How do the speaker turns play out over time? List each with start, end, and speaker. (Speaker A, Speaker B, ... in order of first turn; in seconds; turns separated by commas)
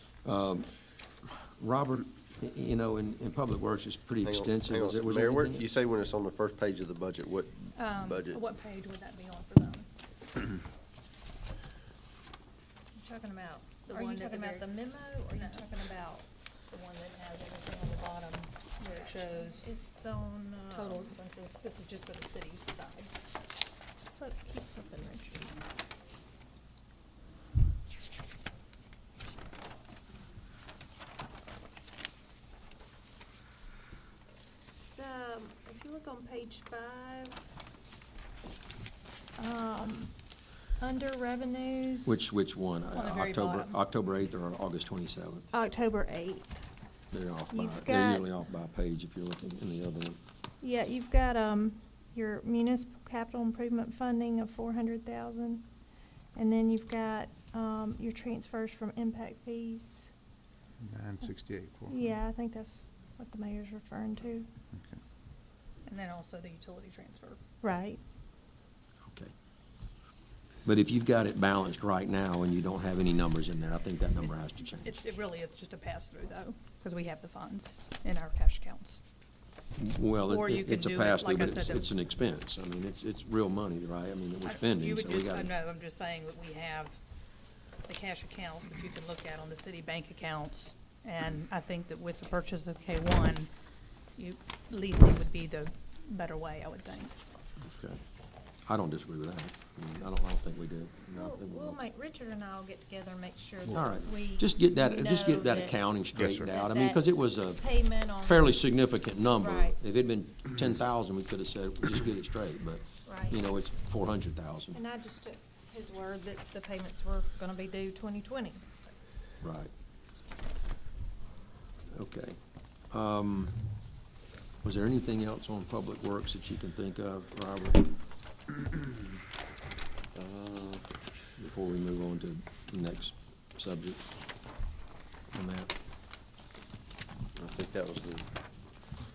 Speaker A: 0.2-5.7, Speaker B: 4.2-8.4, Speaker C: 7.8-9.9, Speaker D: 12.9-15.7, Speaker C: 13.9-19.7, Speaker D: 18.8-21.2, Speaker C: 20.7-23.1, Speaker D: 24.2-25.6, Speaker D: 34.8-37.4, Speaker D: 39.4-40.1, Speaker D: 40.8-42.2, Speaker A: 42.0-45.5, Speaker C: 42.9-43.8, Speaker D: 45.5-46.5, Speaker A: 47.1-50.2, Speaker D: 47.5-48.2, Speaker D: 50.6-55.6, Speaker D: 56.4-60.1, Speaker E: 60.8-62.1, Speaker D: 61.9-64.5, Speaker E: 64.7-65.0, Speaker C: 65.8-67.4, Speaker D: 67.6-68.0, Speaker A: 69.0-69.3, Speaker A: 70.7-75.0, Speaker C: 74.6-79.0, Speaker A: 79.8-85.5, Speaker C: 80.3-81.9, Speaker C: 84.4-87.0, Speaker C: 87.9-93.5, Speaker C: 94.2-97.2, Speaker A: 97.7-98.0, Speaker A: 98.7-101.8, Speaker D: 101.1-105.8, Speaker A: 103.7-114.8, Speaker E: 106.1-106.5, Speaker D: 106.4-108.5, Speaker D: 109.4-109.8, Speaker D: 113.1-113.4, Speaker D: 114.7-118.6, Speaker A: 119.4-119.7, Speaker A: 121.9-122.4, Speaker A: 122.9-123.7, Speaker A: 124.6-127.9, Speaker B: 130.2-130.9, Speaker A: 131.4-134.1, Speaker A: 135.3-135.7, Speaker B: 137.4-138.3